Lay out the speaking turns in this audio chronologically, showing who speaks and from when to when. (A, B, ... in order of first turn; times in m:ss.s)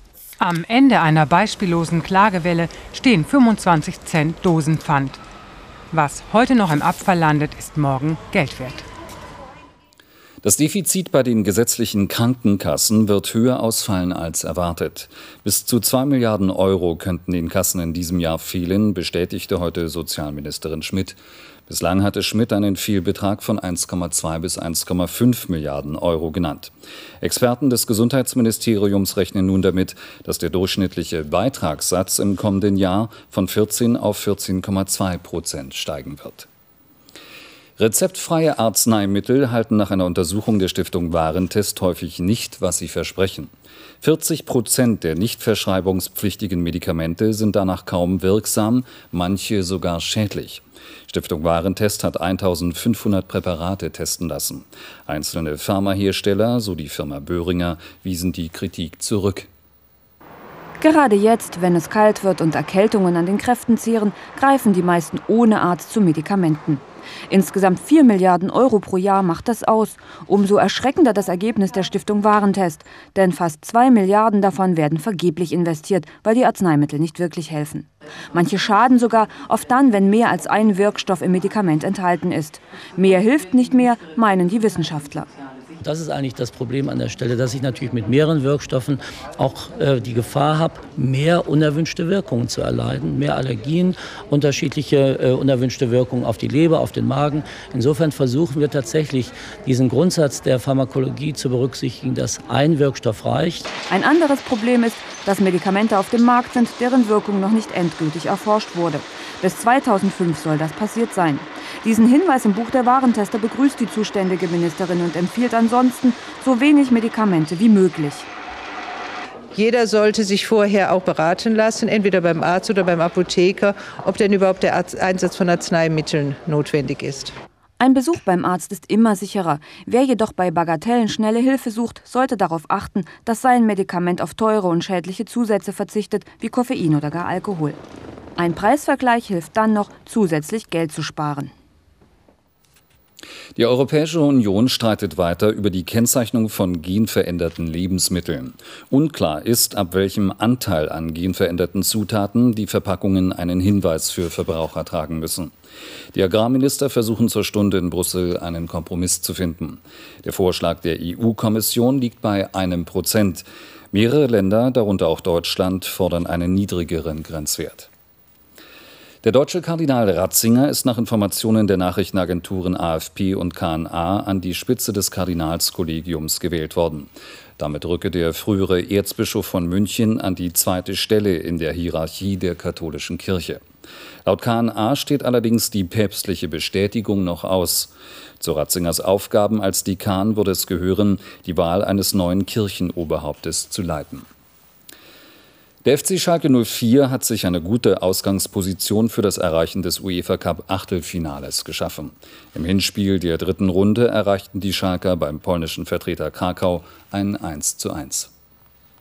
0:00.4-0:05.2 A
0:05.9-0:08.8 A
0:10.4-0:36.5 B
0:37.8-0:59.5 B
1:00.8-1:25.3 C
1:25.8-1:43.7 D
1:43.9-1:58.3 C
1:59.6-2:07.3 E
2:07.8-2:17.8 C
2:18.4-2:21.5 C
2:23.6-2:35.5 B
2:36.1-2:47.9 B
2:49.2-3:03.6 B
3:04.2-3:14.3 B
3:15.8-3:28.3 B